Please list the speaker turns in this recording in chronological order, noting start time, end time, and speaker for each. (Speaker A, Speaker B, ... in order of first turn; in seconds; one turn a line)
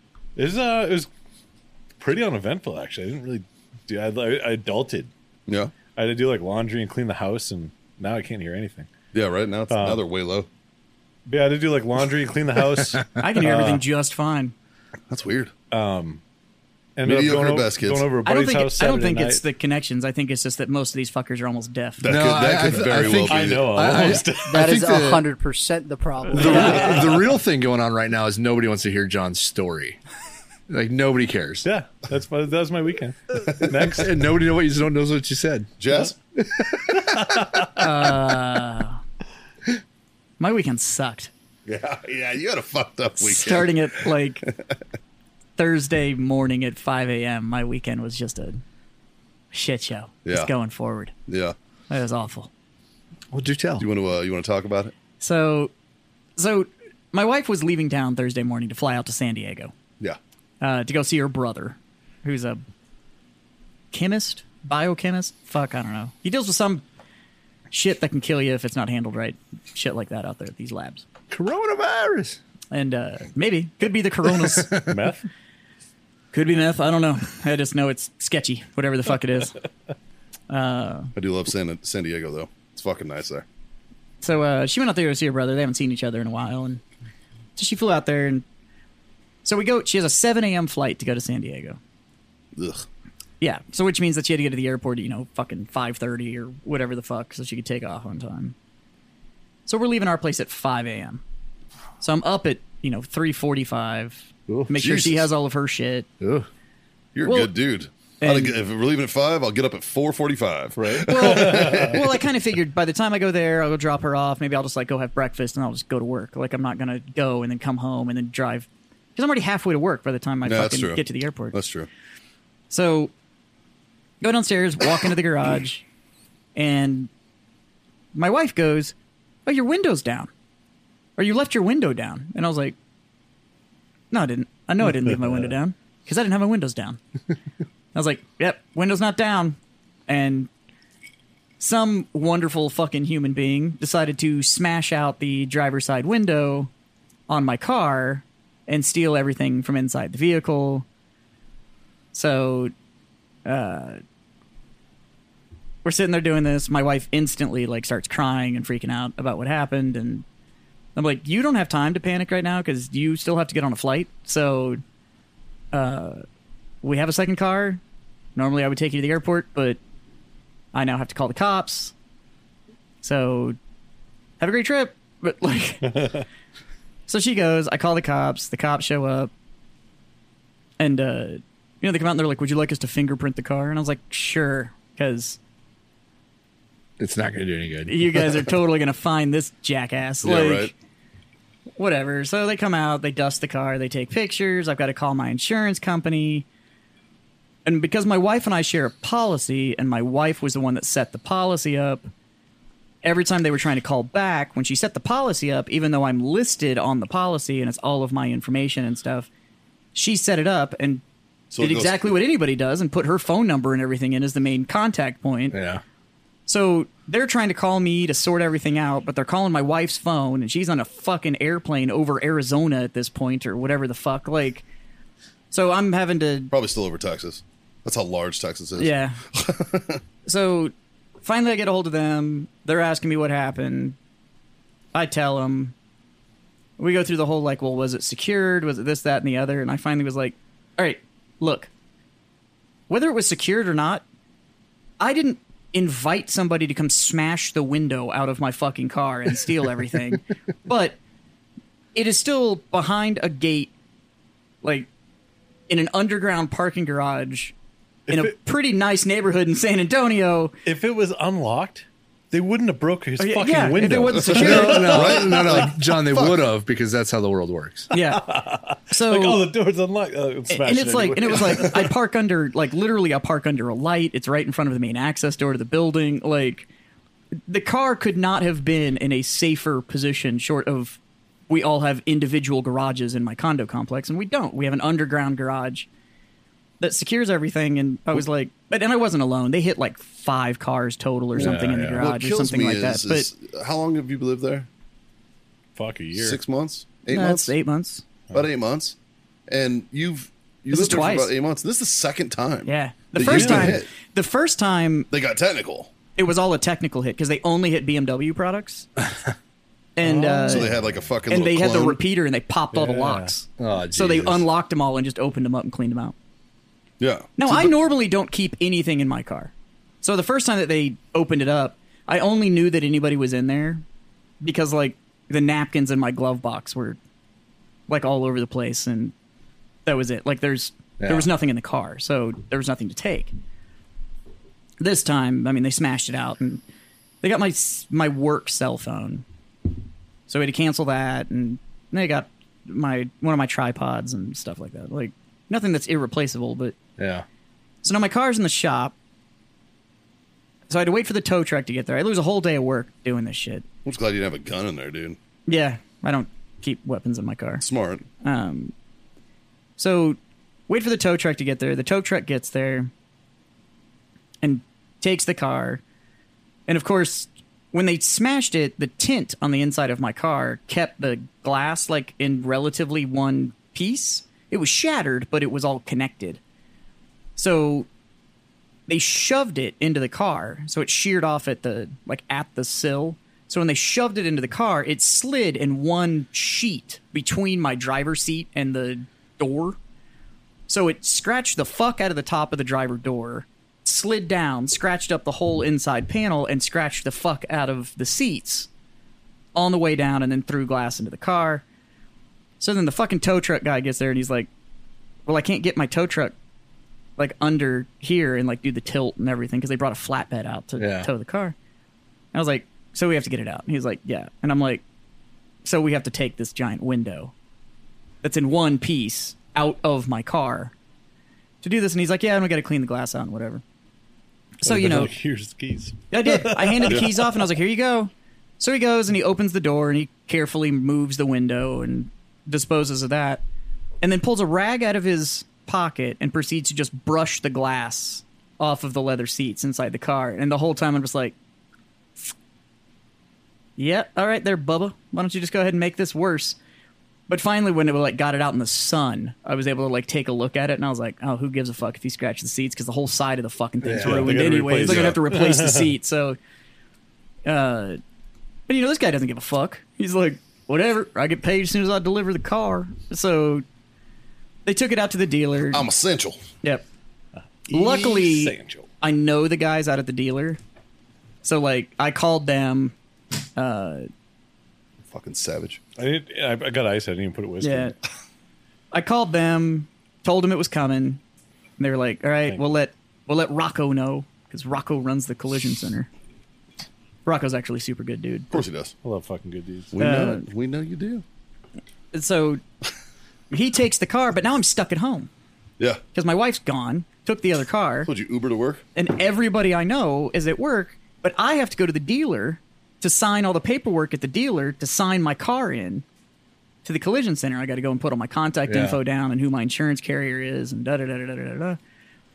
Speaker A: 0.4-1.1
Speaker A: 2.0-5.1
Speaker B: 5.5-5.7
Speaker A: 6.0-8.9
Speaker B: 9.1-10.5
Speaker A: 9.7-10.0
Speaker A: 11.3-13.8
Speaker C: 13.2-14.6
Speaker B: 15.1-15.5
Speaker A: 15.7-16.2
Speaker A: 17.0-19.4
Speaker B: 17.1-18.1
Speaker C: 18.2-22.0
Speaker B: 22.0-24.0
Speaker D: 22.0-25.3
Speaker A: 23.3-24.8
Speaker E: 24.4-26.9
Speaker C: 26.3-26.9
Speaker D: 26.3-30.0
Speaker A: 26.4-27.2
Speaker D: 30.7-31.7
Speaker A: 31.6-34.1
Speaker D: 33.4-35.7
Speaker B: 35.8-36.2
Speaker A: 37.1-37.7
Speaker C: 37.8-39.0
Speaker C: 40.4-41.3
Speaker B: 41.7-44.5
Speaker C: 43.2-44.5
Speaker C: 45.6-48.6
Speaker C: 49.5-51.1
Speaker B: 50.2-50.5
Speaker B: 51.3-51.5
Speaker C: 51.9-52.5
Speaker D: 53.3-53.9
Speaker B: 53.8-54.9
Speaker C: 55.2-55.7
Speaker C: 56.4-59.7
Speaker C: 60.6-62.6
Speaker C: 63.9-66.8
Speaker C: 67.7-71.0
Speaker D: 71.3-72.4
Speaker C: 72.7-74.7
Speaker D: 74.2-75.0
Speaker A: 74.8-75.3
Speaker C: 76.3-79.6
Speaker C: 80.5-81.1
Speaker B: 81.2-83.5
Speaker C: 84.2-86.8
Speaker C: 87.6-88.4
Speaker C: 89.4-91.8
Speaker B: 92.5-92.9
Speaker C: 93.4-98.5
Speaker C: 99.7-101.2
Speaker C: 102.0-106.1
Speaker B: 104.8-105.3
Speaker D: 106.2-106.5
Speaker B: 107.2-112.2
Speaker C: 107.2-107.5
Speaker C: 108.2-108.6
Speaker A: 110.8-112.0
Speaker C: 111.0-121.6
Speaker B: 120.5-121.9
Speaker C: 122.7-123.1
Speaker C: 124.2-125.8
Speaker C: 126.5-127.1
Speaker C: 128.2-128.9
Speaker C: 129.5-130.3
Speaker C: 131.2-132.8
Speaker C: 134.1-137.0
Speaker C: 137.9-140.5
Speaker C: 141.6-146.7
Speaker C: 147.3-150.9
Speaker C: 152.1-152.7
Speaker C: 153.4-154.0
Speaker C: 155.8-160.2
Speaker C: 160.9-164.8
Speaker C: 165.7-166.2
Speaker C: 166.8-167.8
Speaker C: 168.4-169.8
Speaker C: 170.7-171.9
Speaker C: 173.0-173.6
Speaker C: 174.4-176.1
Speaker A: 175.8-176.2
Speaker C: 177.1-179.3
Speaker C: 180.8-185.4
Speaker D: 187.0-188.3
Speaker C: 187.9-190.7
Speaker B: 190.2-190.7
Speaker C: 191.8-196.5
Speaker C: 197.7-202.1
Speaker C: 203.0-209.3
Speaker C: 209.9-211.0
Speaker B: 211.5-212.2
Speaker C: 211.6-215.6
Speaker D: 215.5-215.8
Speaker C: 216.5-224.6
Speaker C: 225.5-226.5
Speaker B: 226.5-230.0
Speaker C: 228.8-229.2
Speaker C: 230.2-234.0
Speaker C: 234.9-235.8
Speaker C: 236.8-241.7
Speaker C: 242.9-244.1
Speaker C: 245.0-251.0
Speaker C: 251.9-253.7
Speaker C: 254.6-254.9
Speaker C: 255.7-257.5
Speaker A: 258.1-258.3
Speaker C: 258.1-260.5
Speaker A: 260.6-265.7
Speaker C: 263.2-265.1
Speaker D: 264.1-267.9
Speaker B: 264.5-266.4
Speaker C: 267.9-268.2
Speaker A: 267.9-271.9
Speaker C: 268.9-269.4
Speaker C: 270.5-276.7
Speaker C: 277.5-281.0
Speaker C: 281.5-285.9
Speaker C: 286.8-293.3
Speaker A: 291.4-292.0
Speaker B: 291.4-294.7
Speaker A: 295.8-296.4
Speaker B: 296.2-297.6
Speaker C: 297.1-298.0
Speaker B: 298.3-299.0
Speaker B: 299.5-303.9
Speaker C: 300.7-301.3
Speaker C: 302.6-305.1
Speaker A: 303.2-303.8
Speaker B: 305.1-305.9
Speaker C: 306.1-308.9
Speaker C: 310.0-310.7
Speaker D: 310.0-310.9
Speaker B: 310.5-312.0
Speaker C: 311.3-316.1
Speaker A: 312.7-313.3
Speaker D: 313.6-314.5
Speaker B: 317.0-317.7
Speaker C: 317.4-319.5
Speaker C: 320.0-323.8
Speaker C: 324.4-327.0
Speaker C: 327.9-329.1
Speaker C: 329.9-333.3
Speaker D: 331.0-331.3
Speaker C: 334.8-336.6
Speaker C: 337.2-339.2
Speaker C: 340.3-346.8
Speaker D: 347.0-347.2
Speaker C: 347.8-348.9
Speaker C: 350.7-353.6
Speaker B: 353.9-355.2
Speaker C: 355.5-357.6
Speaker B: 357.6-358.1
Speaker C: 358.2-358.7
Speaker C: 359.8-360.2
Speaker C: 360.7-362.9
Speaker C: 364.4-365.8
Speaker C: 366.7-376.4
Speaker C: 377.4-377.9
Speaker C: 378.9-389.8
Speaker C: 390.7-398.7
Speaker C: 399.6-401.6
Speaker C: 402.6-404.5
Speaker C: 405.3-406.4
Speaker C: 407.2-411.6
Speaker D: 410.8-411.1
Speaker C: 412.3-414.8
Speaker C: 415.6-417.3
Speaker C: 418.2-420.7
Speaker C: 421.6-423.6
Speaker C: 424.6-425.1
Speaker A: 424.6-427.4
Speaker C: 426.1-433.4
Speaker C: 434.0-441.4
Speaker C: 443.8-446.6
Speaker C: 447.3-456.4
Speaker D: 453.8-454.4
Speaker A: 454.0-455.9
Speaker B: 454.8-455.2
Speaker C: 457.4-458.0
Speaker C: 458.7-463.6
Speaker C: 464.7-465.9
Speaker B: 465.7-466.4
Speaker A: 467.7-468.9
Speaker C: 467.7-470.6
Speaker C: 471.4-472.9
Speaker C: 473.6-474.1
Speaker B: 475.1-475.8
Speaker A: 476.0-477.9
Speaker C: 477.6-477.9
Speaker C: 478.9-481.2
Speaker C: 481.8-486.1
Speaker C: 487.3-488.6
Speaker B: 488.5-488.9
Speaker A: 489.0-489.9
Speaker B: 489.9-491.2
Speaker C: 490.0-490.4
Speaker C: 492.1-492.6
Speaker C: 493.5-495.3
Speaker C: 496.1-498.1
Speaker B: 498.1-498.8
Speaker C: 498.9-506.1
Speaker C: 506.8-511.8
Speaker D: 508.7-509.0